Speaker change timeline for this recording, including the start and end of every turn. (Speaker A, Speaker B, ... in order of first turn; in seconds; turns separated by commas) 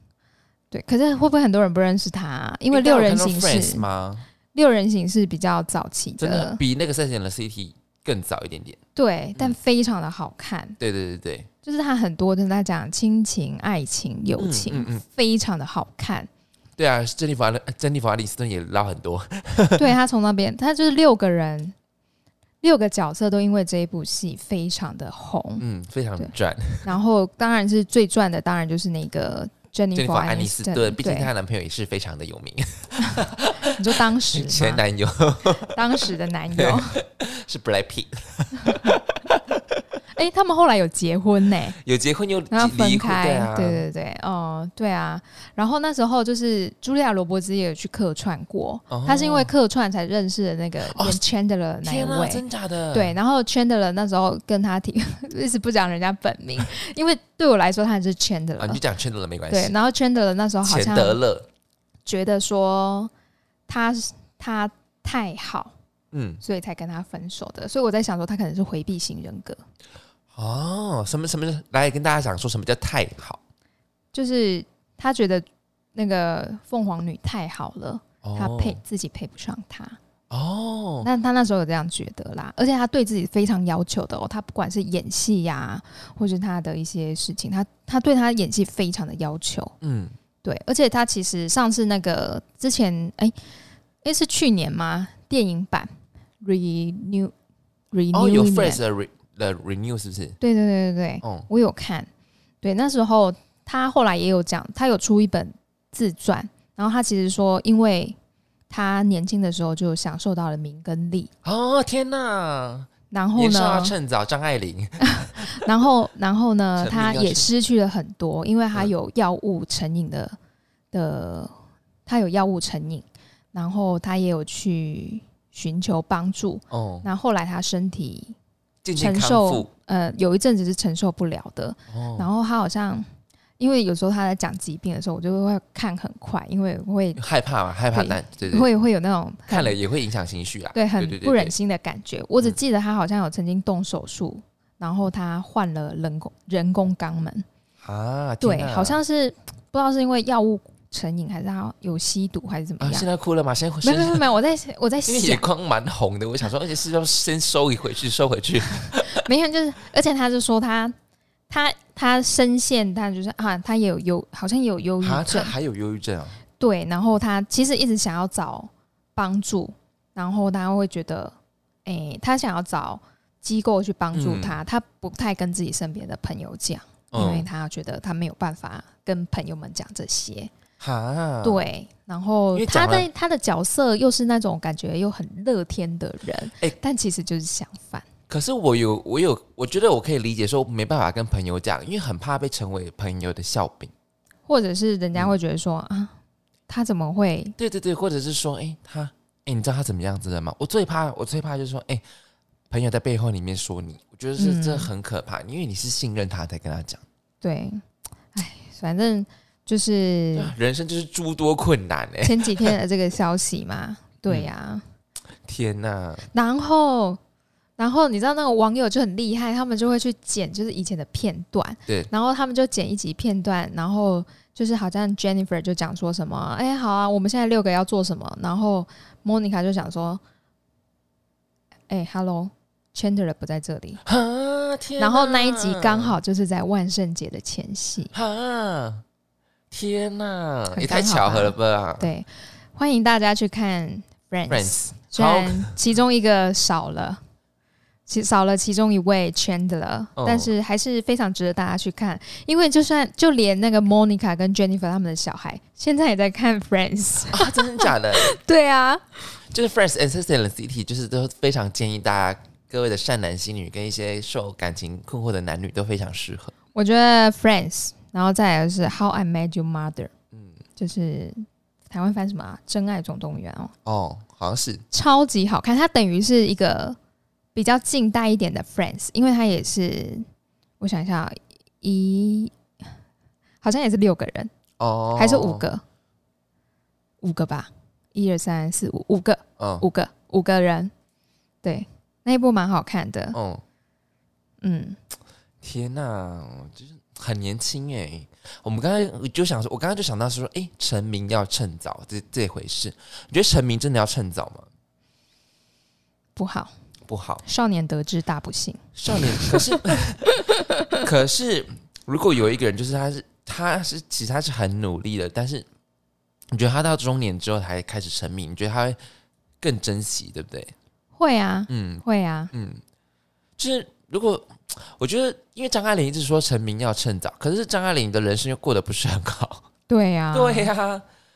Speaker A: 0.7-3.8, Speaker B: 2.7-4.3, Speaker A: 4.5-6.6, Speaker B: 6.2-8.8, Speaker A: 9.0-10.8, Speaker B: 10.8-11.5, Speaker A: 11.6-16.3, Speaker B: 14.4-15.0, Speaker B: 16.8-19.9, Speaker A: 19.8-21.8, Speaker A: 22.6-25.6, Speaker B: 25.6-26.9, Speaker A: 26.8-31.3, Speaker B: 29.9-35.8, Speaker A: 33.0-34.8, Speaker A: 35.7-37.0, Speaker B: 36.5-39.6, Speaker A: 40.1-41.8, Speaker B: 41.8-43.8, Speaker A: 42.5-58.8, Speaker B: 48.9-49.5, Speaker B: 50.9-51.2, Speaker B: 51.8-53.2, Speaker B: 58.6-59.8, Speaker A: 59.5-61.2, Speaker B: 60.6-61.5, Speaker A: 62.1-63.1, Speaker A: 63.7-65.7, Speaker B: 66.1-66.4, Speaker A: 66.4-69.6, Speaker B: 70.3-73.4, Speaker A: 74.1-80.0, Speaker B: 78.2-78.8, Speaker B: 80.3-81.1, Speaker A: 81.0-89.8, Speaker B: 89.8-90.2, Speaker A: 90.4-93.4, Speaker A: 94.0-95.9, Speaker A: 96.4-97.3, Speaker A: 97.9-98.8, Speaker B: 98.1-100.4, Speaker A: 100.4-102.1, Speaker A: 102.6-108.2, Speaker A: 108.7-111.3, Speaker B: 111.4-115.7, Speaker A: 113.1-114.0, Speaker A: 115.0-120.4, Speaker B: 116.8-117.5, Speaker A: 120.9-121.5, Speaker A: 122.1-128.4, Speaker B: 126.7-127.1, Speaker B: 128.8-129.7, Speaker A: 129.0-133.1, Speaker B: 131.9-132.3, Speaker A: 133.6-137.2, Speaker B: 137.2-138.7, Speaker A: 137.9-139.8, Speaker B: 139.5-141.5, Speaker A: 140.7-147.5, Speaker B: 147.8-149.0, Speaker A: 148.4-153.1, Speaker B: 152.8-154.2, Speaker A: 153.8-155.4, Speaker B: 155.1-159.2, Speaker A: 158.9-160.9, Speaker A: 161.5-165.5, Speaker B: 165.0-166.4, Speaker A: 166.6-180.5, Speaker B: 174.1-174.6, Speaker B: 177.1-177.5, Speaker B: 180.8-181.6, Speaker A: 181.4-188.1, Speaker B: 182.5-183.1, Speaker B: 188.3-193.9, Speaker A: 194.5-196.1, Speaker A: 196.7-197.6, Speaker B: 197.6-202.0, Speaker B: 202.7-207.0, Speaker A: 204.4-204.9, Speaker A: 207.4-207.8, Speaker A: 208.3-210.5, Speaker B: 210.3-212.7, Speaker A: 212.2-214.8, Speaker B: 215.5-216.3, Speaker A: 216.3-217.2, Speaker A: 217.8-230.2, Speaker A: 231.9-234.0, Speaker B: 234.1-236.2, Speaker A: 235.0-238.1, Speaker B: 238.1-239.0, Speaker B: 239.7-242.1, Speaker A: 240.7-247.2, Speaker B: 244.5-245.7, Speaker A: 248.1-259.3, Speaker B: 250.2-250.5, Speaker B: 257.3-258.4, Speaker B: 259.5-266.5, Speaker A: 266.8-270.1, Speaker A: 270.8-273.7, Speaker B: 273.9-274.8, Speaker A: 274.9-277.0, Speaker A: 277.6-280.2, Speaker A: 280.8-282.6, Speaker A: 283.6-284.5, Speaker B: 284.8-285.7, Speaker A: 285.2-285.8, Speaker A: 287.2-290.9, Speaker B: 289.6-289.9, Speaker A: 291.6-293.4, Speaker B: 293.3-293.6, Speaker A: 294.6-295.0, Speaker B: 295.6-304.7, Speaker A: 306.4-306.7, Speaker B: 307.1-307.4, Speaker A: 307.4-309.7, Speaker B: 309.0-310.3, Speaker A: 310.3-311.0, Speaker B: 310.9-315.7, Speaker B: 316.5-319.0, Speaker B: 319.6-320.7, Speaker A: 321.2-322.5, Speaker B: 321.7-322.8, Speaker B: 323.6-329.6, Speaker A: 329.9-330.7, Speaker B: 330.3-331.0